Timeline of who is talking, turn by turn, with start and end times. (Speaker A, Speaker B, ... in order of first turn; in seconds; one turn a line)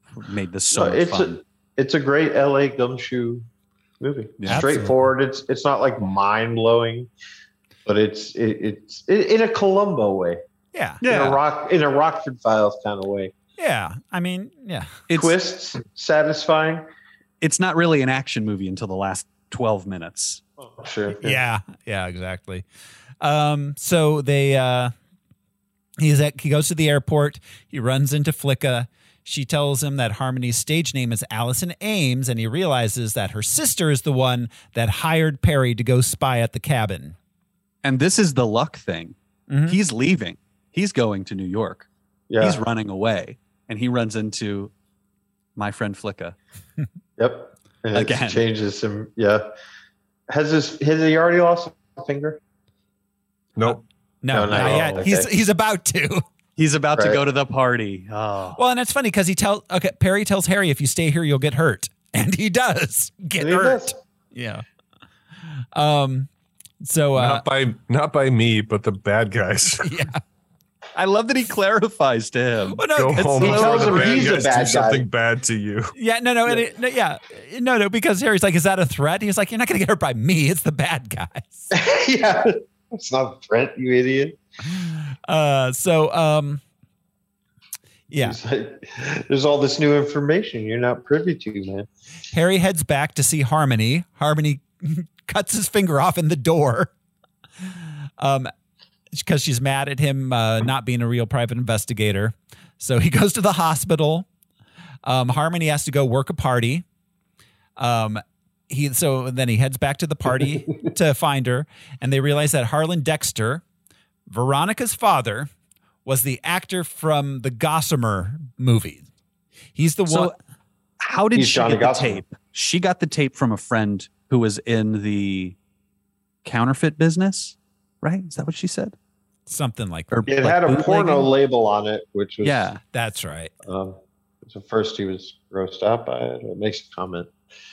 Speaker A: 0.1-1.4
Speaker B: 0.7-3.4
Speaker B: 4.0-7.1
Speaker A: 4.4-4.8
Speaker C: 4.5-4.9
Speaker B: 7.8-10.4
Speaker C: 10.7-11.0
Speaker A: 11.0-11.4
Speaker B: 11.0-13.3
Speaker C: 13.6-15.0
Speaker A: 15.1-15.4
Speaker B: 15.1-16.9
Speaker A: 17.4-20.4
Speaker B: 20.6-21.4
Speaker C: 21.2-22.6
Speaker C: 23.2-24.9
Speaker C: 26.0-37.1
Speaker A: 37.8-39.1
Speaker C: 39.5-39.8
Speaker A: 39.7-41.9
Speaker B: 42.3-42.6
Speaker A: 42.4-44.7
Speaker A: 45.5-46.4
Speaker B: 47.2-49.5
Speaker A: 47.9-48.4
Speaker B: 50.3-52.4
Speaker C: 53.6-56.2
Speaker B: 54.3-55.3
Speaker D: 54.5-55.0
Speaker A: 56.5-58.6
Speaker B: 57.0-57.2
Speaker C: 58.6-64.6
Speaker B: 63.4-63.9
Speaker C: 65.7-66.3
Speaker C: 66.8-67.5
Speaker D: 67.1-69.9
Speaker C: 69.8-70.2
Speaker A: 70.9-74.4
Speaker C: 72.7-74.0
Speaker D: 72.9-75.9
Speaker B: 73.4-75.1
Speaker C: 76.0-81.7
Speaker B: 81.7-84.3
Speaker C: 85.3-86.6
Speaker C: 88.1-88.4
Speaker B: 88.2-91.9
Speaker C: 92.3-96.9
Speaker C: 98.2-98.5
Speaker C: 99.1-104.3
Speaker C: 105.0-106.8
Speaker C: 107.8-113.6
Speaker C: 114.3-115.5
Speaker C: 116.0-119.1
Speaker C: 119.8-120.3
Speaker A: 120.1-120.3
Speaker A: 121.0-125.5
Speaker B: 121.3-122.2
Speaker A: 126.4-128.9
Speaker C: 129.5-130.9
Speaker A: 130.1-131.3
Speaker B: 130.3-132.7
Speaker A: 132.4-132.8
Speaker C: 132.9-133.5
Speaker B: 133.7-137.3